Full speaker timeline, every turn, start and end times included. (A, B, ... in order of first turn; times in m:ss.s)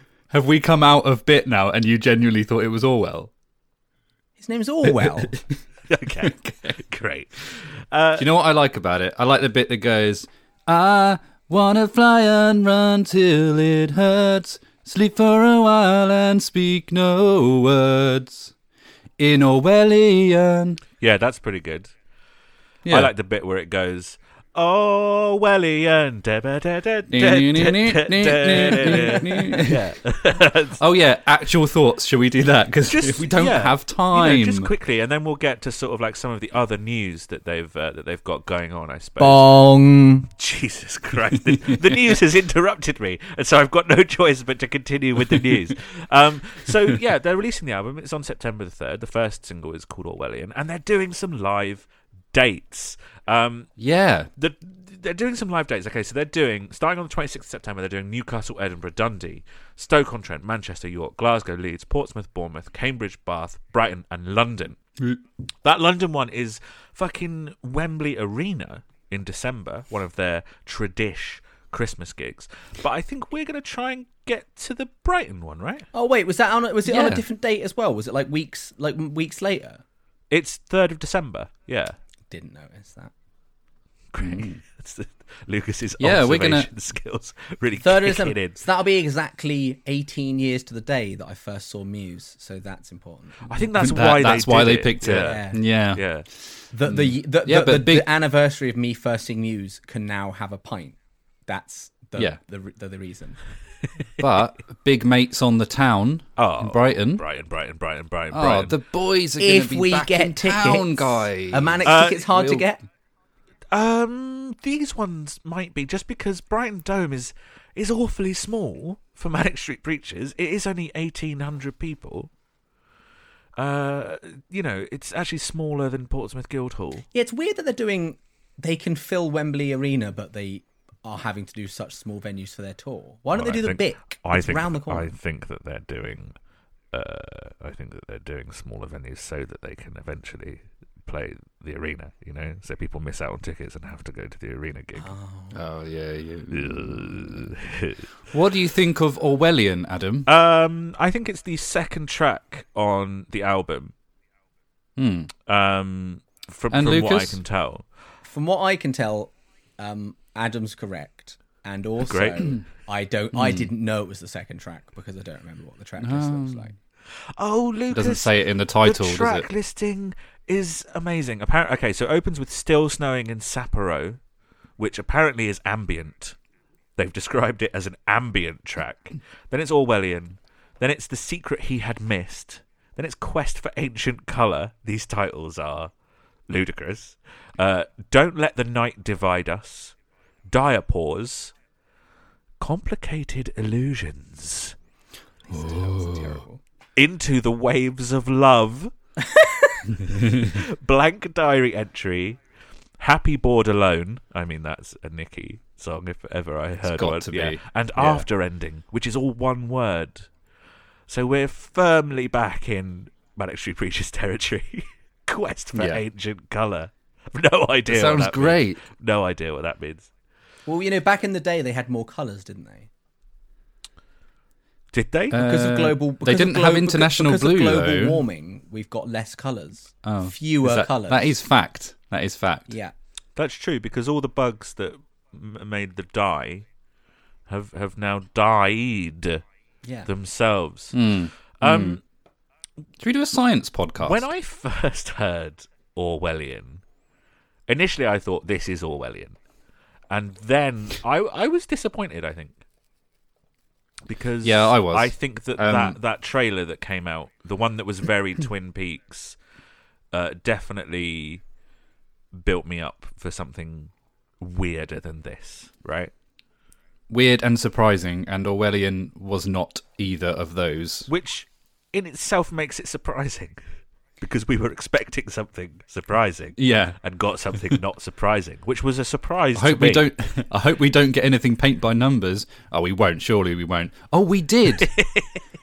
0:00.3-0:03.3 A
0:04.4-0:05.4 B
0:05.9-0:08.3 C
0:08.1-0:18.5 A
0:19.2-0:20.8 A
0:21.0-0:21.9 C
0:22.8-0:23.1 A
0:22.9-0:30.8 C
0:27.1-0:29.9 A
0:30.8-0:34.7 A
0:32.8-0:39.5 C
0:39.2-0:40.3 B
0:40.4-0:53.7 C
0:41.5-0:42.1 A
0:53.8-0:54.3 A
0:54.4-1:04.8 C
1:05.6-1:15.9 C
1:15.9-1:19.8 B
1:16.8-1:17.2 A
1:20.3-1:22.0 C
1:22.3-1:23.1 B
1:24.1-1:28.6 C
1:24.2-1:24.6 A
1:26.0-1:26.7 A
1:27.8-1:33.9 B
1:33.4-1:35.4 C
1:33.8-1:36.0 A
1:35.0-1:35.6 B
1:35.9-1:36.2 C
1:36.7-1:43.4 B
1:36.8-1:38.1 A
1:44.2-1:47.2 A
1:46.4-1:48.8 C
1:48.3-1:52.6 A
1:49.4-1:52.8 B
1:51.8-1:52.2 C
1:53.7-2:02.3 C
2:03.6-2:07.0 C
2:07.1-2:15.1 B
2:13.3-2:16.4 C
2:16.9-2:25.1 C
2:25.0-2:25.6 B
2:25.5-2:27.5 A
2:26.5-2:28.1 C
2:28.3-2:30.3 A
2:30.2-2:33.9 C
2:35.0-2:35.3 A
2:35.5-2:37.8 C
2:36.7-2:37.4 A
2:38.2-2:46.7 B
2:42.0-2:42.5 C
2:43.3-2:43.7 A
2:46.0-2:46.7 A
2:47.4-2:54.2 C
2:47.9-2:49.5 A
2:54.8-2:56.4 C
2:57.0-3:05.9 C
3:06.5-3:09.9 C
3:10.5-3:11.5 C
3:12.6-3:14.7 C
3:15.5-3:16.6 B
3:15.5-3:16.4 A
3:17.0-3:18.9 C
3:19.2-3:19.8 B
3:20.1-3:22.4 C
3:23.0-3:30.3 C
3:26.8-3:28.2 A
3:31.1-3:40.1 C
3:35.7-3:36.0 A
3:37.9-3:38.8 A
3:40.6-3:42.9 B
3:44.9-3:45.4 C
3:45.3-3:48.2 A
3:45.3-3:51.4 B
3:50.0-3:52.7 A
3:52.7-3:52.9 B
3:53.4-3:56.6 C
3:57.5-3:59.4 C
3:59.8-4:00.1 B
4:00.0-4:01.0 C
4:00.9-4:02.0 A
4:01.6-4:02.0 C
4:03.0-4:04.3 A
4:04.0-4:06.8 C
4:07.7-4:09.4 C
4:10.1-4:12.6 C
4:14.1-4:19.4 C
4:14.4-4:16.0 A
4:20.1-4:21.4 C
4:22.4-4:26.1 C
4:27.1-4:31.1 A
4:31.1-4:33.6 C
4:34.2-4:40.1 C
4:36.6-4:37.0 A
4:39.5-4:44.9 A
4:44.8-4:45.4 C